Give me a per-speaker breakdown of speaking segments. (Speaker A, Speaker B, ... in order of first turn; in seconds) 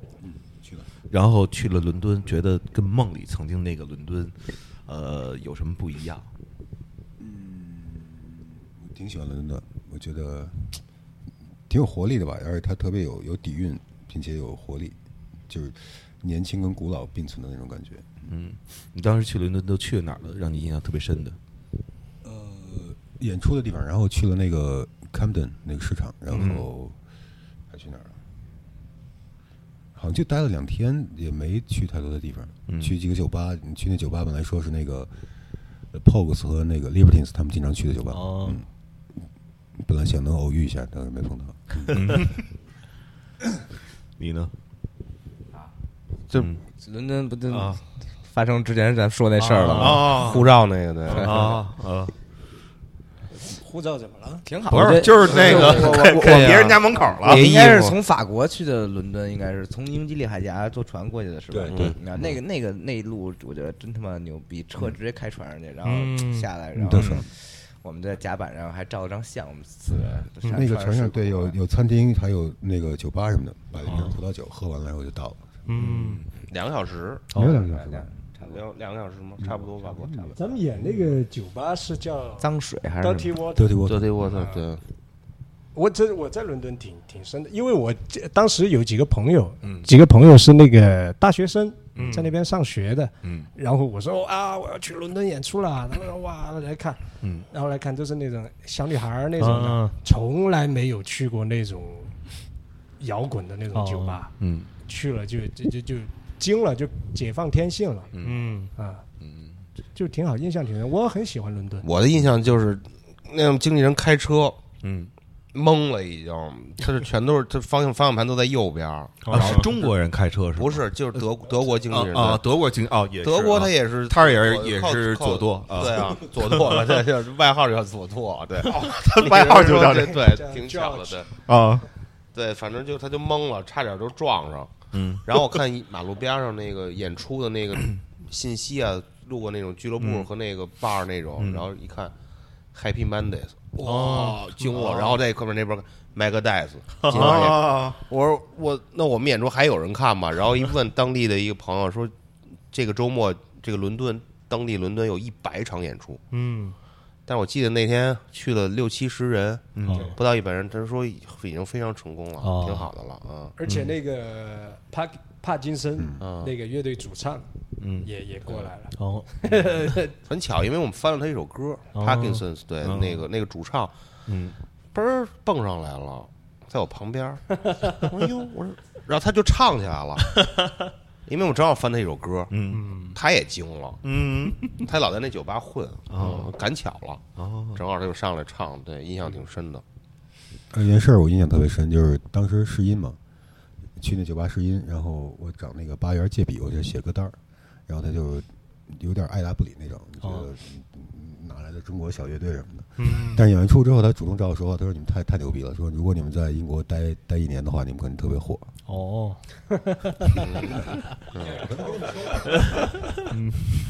Speaker A: 0.2-0.9, 7.2-10.8, 11.7-14.9, 15.5-18.2, 22.2-27.0, 27.7-28.2, 29.9-35.1, 35.9-38.6, 39.8-42.2, 61.5-62.3, 66.7-67.2, 70.5-75.6, 77.3-78.1, 79.4-80.4, 83.5-84.2, 190.7-193.2, 193.9-208.7, 211.5-212.4
Speaker B: 1.1-6.3, 18.3-21.4, 26.3-26.7, 32.7-33.0, 41.9-42.4, 44.2-44.5, 47.5-47.8, 49.4-52.1, 54.7-57.7, 75.8-76.3, 89.6-89.9, 91.9-92.3, 93.2-93.5, 97.2-97.5, 104.4-104.7, 108.1-108.5, 109.2-109.5, 114.8-115.1, 119.3-120.8, 121.9-127.0, 128.6-130.3, 131.3-131.9, 134.9-135.6, 140.0-140.3, 141.4-141.7, 144.8-145.1, 147.1-148.0, 159.7-160.1, 163.7-163.9, 167.8-168.1, 172.8-173.2, 174.3-174.5, 182.5-182.9, 184.0-184.9, 186.1-186.5, 187.4-187.8
Speaker C: 38.1-38.6, 65.8-66.5, 73.8-74.2, 75.7-76.2, 92.0-92.3, 99.4-99.9, 103.7-104.2, 108.2-108.7, 119.2-119.7, 143.8-144.4, 147.0-147.5, 156.3-156.8, 159.8-160.2, 162.4-162.9, 168.9-169.3, 171.9-172.4, 182.7-183.2, 200.2-200.5, 203.0-203.5, 208.9-209.4, 212.5-213.7
Speaker D: 46.8-50.4, 54.4-71.6, 77.3-78.6, 79.4-80.3, 82.4-83.3
Speaker E: 49.6-51.5, 55.2-58.0, 61.7-62.0, 76.5-77.6, 78.4-80.3, 83.8-84.8, 111.8-114.6, 115.5-119.7, 120.5-122.5, 123.2-131.3, 132.3-142.1, 142.7-152.1, 152.7-156.2, 157.3-163.6, 166.2-166.5, 170.2-173.9, 174.9-180.4, 181.3-182.5, 183.1-184.0, 184.7-189.8, 210.4-211.8
Speaker F: 53.5-54.4, 80.3-82.5, 83.0-84.6, 85.7-102.1, 103.0-104.3, 104.8-108.1, 108.7-109.0, 109.9-111.8, 129.8-131.2, 163.6-167.5, 168.0-170.1